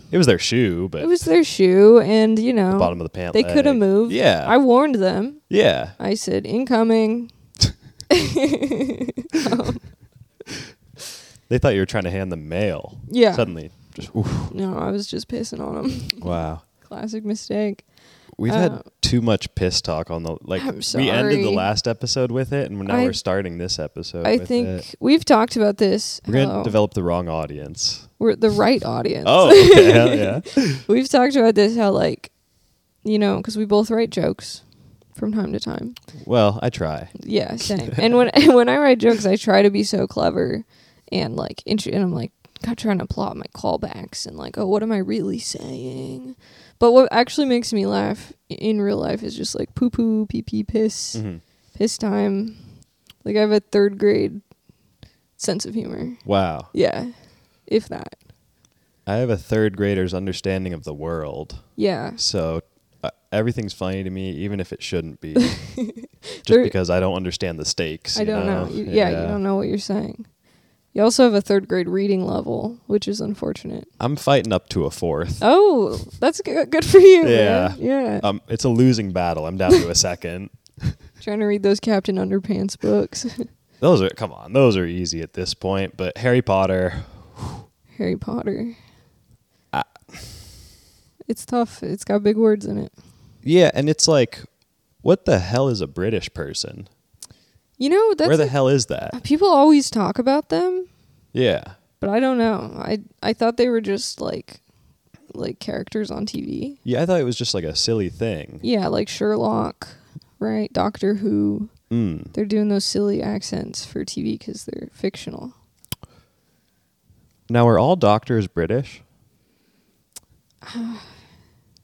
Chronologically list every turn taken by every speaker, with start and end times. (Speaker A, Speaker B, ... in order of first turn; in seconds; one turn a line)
Speaker A: 0.1-1.1
Speaker B: 1.0-5.4
Speaker A: 2.7-4.5
Speaker A: 5.5-6.0
Speaker B: 6.0-7.3
Speaker B: 8.1-9.9
Speaker A: 11.5-14.5
Speaker B: 13.1-13.5
Speaker B: 14.5-17.8
Speaker A: 16.2-16.6
Speaker A: 18.4-24.8
Speaker B: 18.5-18.9
Speaker B: 20.6-21.7
Speaker B: 22.9-23.2
Speaker B: 24.2-26.8
Speaker A: 26.3-28.1
Speaker B: 28.2-32.3
Speaker A: 29.2-30.8
Speaker B: 33.0-34.6
Speaker B: 35.1-36.0
Speaker A: 36.2-37.2
Speaker B: 37.2-51.2
Speaker A: 51.1-51.4
Speaker B: 51.8-52.6
Speaker B: 53.2-54.4
Speaker B: 55.4-57.1
Speaker A: 56.2-56.7
Speaker B: 57.6-58.2
Speaker A: 59.0-61.7
Speaker B: 61.8-62.2
Speaker A: 62.2-65.6
Speaker B: 65.4-66.7
Speaker A: 66.5-69.4
Speaker B: 68.1-70.3
Speaker B: 70.9-73.9
Speaker A: 74.0-75.4
Speaker B: 75.4-78.3
Speaker A: 77.2-81.0
Speaker B: 81.2-83.5
Speaker A: 83.8-87.6
Speaker B: 87.9-88.8
Speaker A: 89.7-90.4
Speaker B: 91.3-92.9
Speaker A: 93.4-94.4
Speaker A: 95.0-96.9
Speaker B: 97.8-98.5
Speaker A: 98.2-99.2
Speaker B: 99.1-100.9
Speaker A: 101.3-101.7
Speaker B: 102.0-104.6
Speaker B: 105.3-106.8
Speaker A: 106.8-108.6
Speaker B: 108.6-111.7
Speaker A: 111.9-112.3
Speaker B: 112.3-115.5
Speaker A: 117.5-119.0
Speaker B: 120.6-121.1